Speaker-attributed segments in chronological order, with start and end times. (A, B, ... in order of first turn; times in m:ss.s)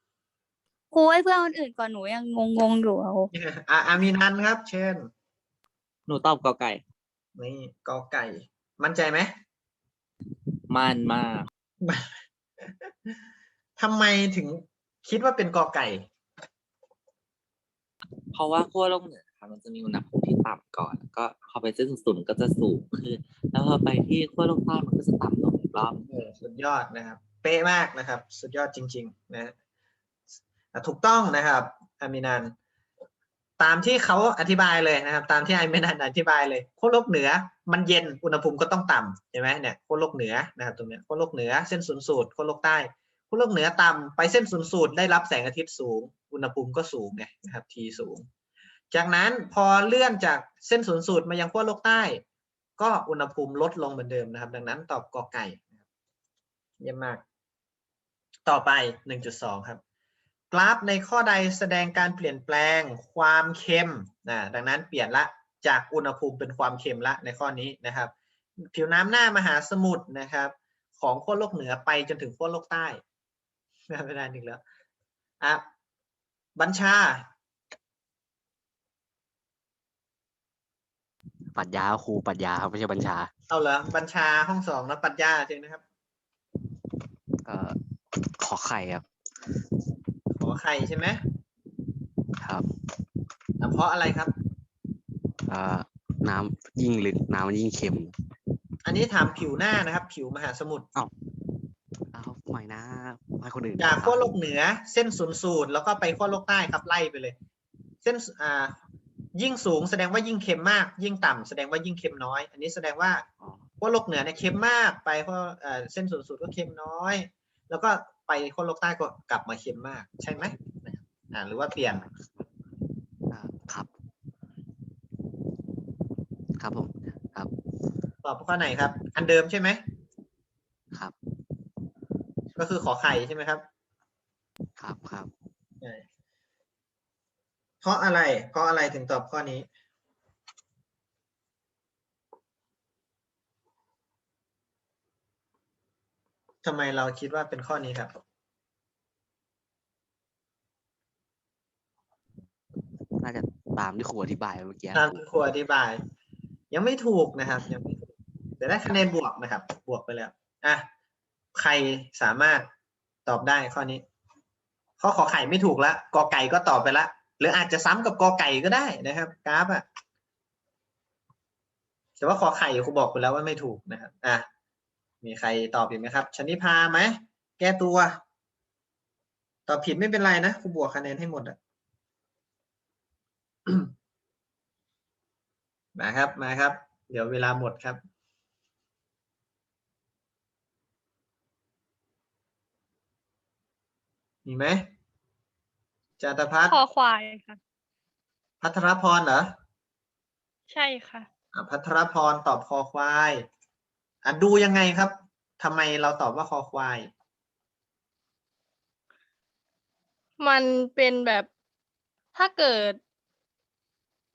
0:00.9-0:03.3 A
0:03.3-0:05.1 B
0:06.1-0:06.8 C
0:07.4-0:09.3 B
0:10.7-0:11.5 C
0:11.8-0:12.2 B
0:12.8-0:13.2 B
0:13.8-0:16.1 B
0:18.3-0:26.0 C
0:26.0-0:29.5 B
0:30.7-0:32.5 B
0:33.6-0:48.3 B
0:48.9-0:52.2 B
0:52.8-0:55.7 B
0:56.8-0:57.2 B
0:58.5-0:59.8 B
1:00.5-1:08.1 B
1:08.7-1:13.0 B
1:13.9-1:14.6 B
1:16.6-1:17.3 B
1:21.5-1:23.3 D
1:23.5-1:25.8 B
1:27.4-1:27.8 D
1:28.4-1:29.0 D
1:30.4-1:31.2 B
1:32.4-1:32.7 D
1:33.6-1:34.3 B
1:35.5-1:38.1 D
1:38.8-1:40.9 B
1:42.1-1:44.3 D
1:43.8-1:47.4 B
1:48.0-1:48.8 B
1:49.4-1:53.2 B
1:53.8-2:02.0 B
2:01.9-2:02.4 D
2:03.3-2:03.9 D
2:06.6-2:07.5 D
2:08.2-2:09.8 B
2:12.6-2:13.6 B
2:14.8-2:15.3 D
2:17.8-2:19.7 B
2:26.6-2:28.2 B
2:33.2-2:35.2 D
2:35.0-2:36.0 B
2:36.7-2:38.1 B
2:38.6-2:40.9 B
2:41.6-2:42.7 B
2:43.3-2:44.0 B
2:45.0-2:49.8 B
2:52.2-2:54.5 B
2:55.2-2:58.2 B
2:59.7-3:01.6 B
3:03.7-3:03.9 B
3:06.0-3:08.0 B
3:14.4-3:14.9 B
3:16.2-3:16.8 B
3:16.7-3:17.6 E
3:18.6-3:19.5 B
3:20.7-3:21.3 E
3:21.5-3:23.4 B
3:24.2-3:27.1 B
3:30.4-3:31.5 E
3:32.4-3:33.0 E